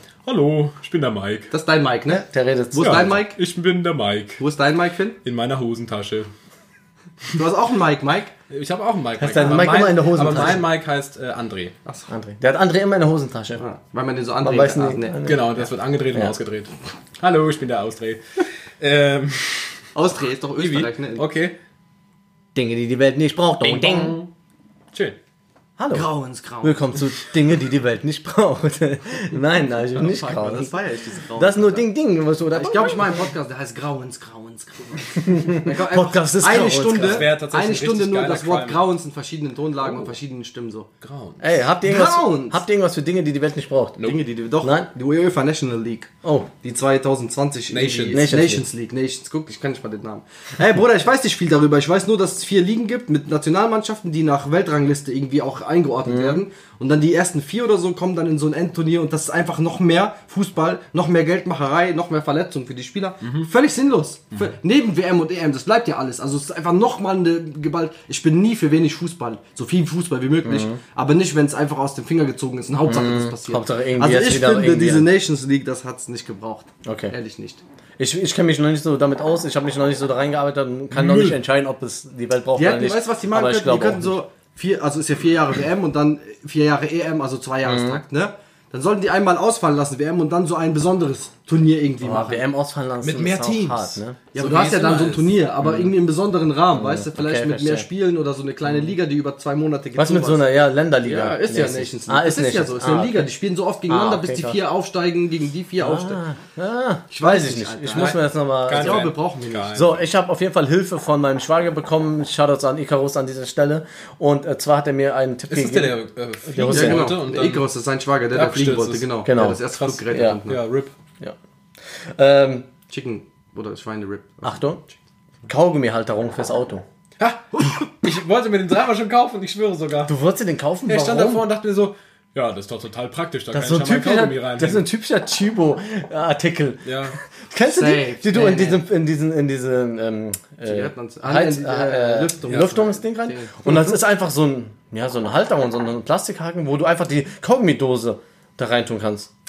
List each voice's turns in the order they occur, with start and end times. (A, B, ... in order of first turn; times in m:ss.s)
0:00.2-0:01.5 A
0:01.5-0:03.4 B
0:02.1-0:03.2 C
0:03.2-0:04.4 A
0:04.4-0:05.2 B
0:05.2-0:06.3 A
0:07.3-0:08.3 B
0:08.5-0:11.8 A
0:09.2-0:10.6 C
0:12.1-0:13.6 C
0:13.6-0:15.2 B
0:14.4-0:15.6 C
0:15.2-0:19.8 A
0:19.9-0:21.2 B
0:20.6-0:21.6 A
0:22.6-0:24.2 C
0:23.6-0:24.3 A
0:25.8-0:30.7 C
0:25.9-0:26.9 B
0:29.9-0:31.9 B
0:31.4-0:33.2 C
0:32.5-0:40.9 B
0:35.2-0:37.3 C
0:36.7-0:38.9 A
0:39.8-0:40.2 A
0:41.0-0:41.6 A
0:41.4-0:44.0 C
0:41.8-0:42.6 B
0:44.0-1:17.6 B
0:44.6-0:44.9 C
0:46.2-0:46.5 C
0:47.7-0:48.2 A
0:48.1-0:48.6 C
0:56.1-0:56.4 C
1:03.2-1:03.5 A
1:10.4-1:10.8 C
1:12.8-1:15.1 C
1:16.8-1:17.1 C
1:18.0-1:24.2 C
1:20.9-1:21.4 A
1:22.6-1:32.4 B
1:27.6-1:28.0 C
1:32.0-1:34.2 C
1:33.0-1:35.9 A
1:34.3-1:46.2 B
1:36.7-1:37.9 C
1:40.0-1:43.3 C
1:43.9-1:44.6 C
1:45.8-1:49.1 C
1:47.1-1:49.7 B
1:47.9-1:50.0 A
1:49.7-1:57.2 C
1:55.5-1:57.7 A
1:56.7-2:00.6 B
1:58.3-1:59.2 A
1:59.2-2:00.4 C
1:59.7-2:00.9 A
2:02.2-2:02.7 C
2:02.9-2:04.6 B
2:04.4-2:04.8 C
2:05.5-2:06.8 C
2:07.2-2:10.1 A
2:10.1-2:11.4 C
2:10.9-2:14.9 A
2:13.5-2:29.3 C
2:16.8-2:17.2 A
2:17.7-2:18.8 B
2:20.6-2:23.6 B
2:22.5-2:22.8 A